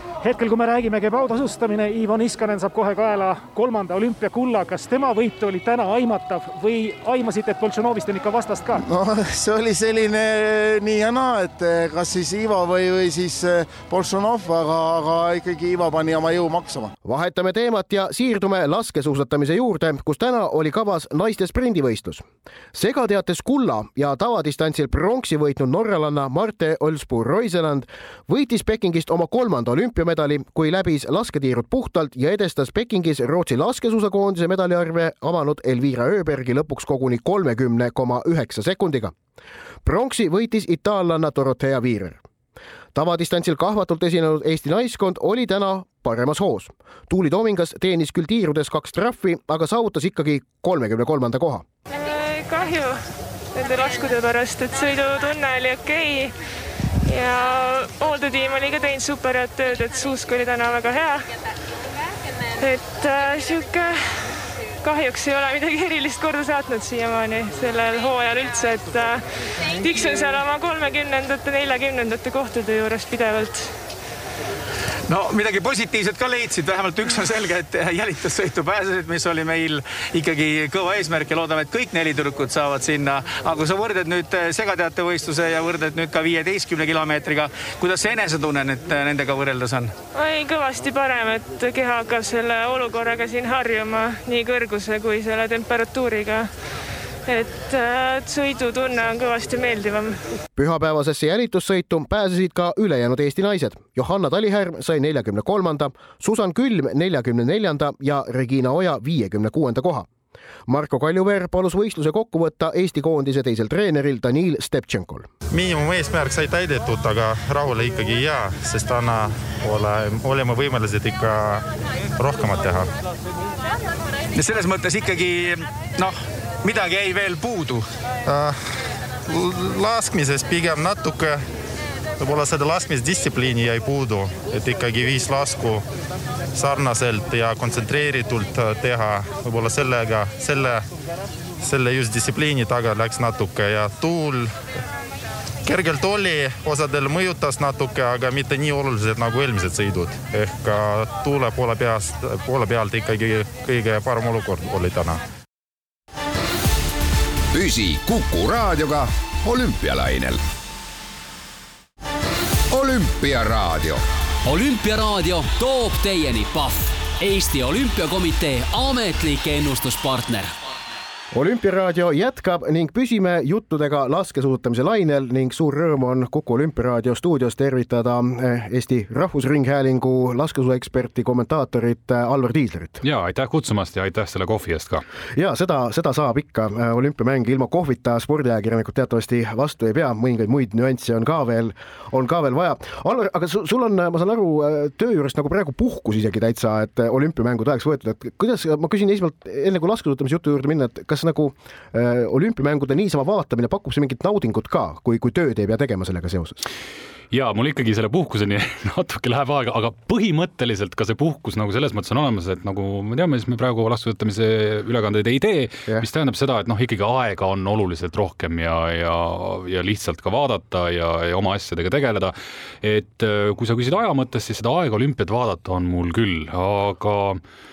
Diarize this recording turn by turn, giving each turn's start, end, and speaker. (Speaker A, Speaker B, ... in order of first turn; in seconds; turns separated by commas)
Speaker A: 0.2-8.8, Speaker B: 8.8-16.9, Speaker C: 17.0-39.1, Speaker C: 39.9-42.2, Speaker C: 43.0-51.6, Speaker D: 51.9-53.0, Speaker D: 53.5-56.3, Speaker D: 57.1-61.4, Speaker D: 62.6-64.3, Speaker D: 64.8-73.7, Speaker E: 75.1-89.9, Speaker D: 90.1-96.5, Speaker D: 97.3-100.2, Speaker C: 100.6-110.1, Speaker C: 110.7-115.3, Speaker F: 115.5-121.7, Speaker F: 122.2-122.9, Speaker E: 124.3-127.9, Speaker F: 128.3-128.7, Speaker F: 129.3-131.4, Speaker F: 132.2-135.8, Speaker F: 136.6-140.8, Speaker F: 141.6-144.6, Speaker F: 145.7-155.2, Speaker G: 157.5-160.4, Speaker G: 162.7-164.0, Speaker H: 164.4-170.6, Speaker C: 171.3-183.0, Speaker I: 183.0-185.0, Speaker C: 185.3-206.6, Speaker I: 207.3-227.4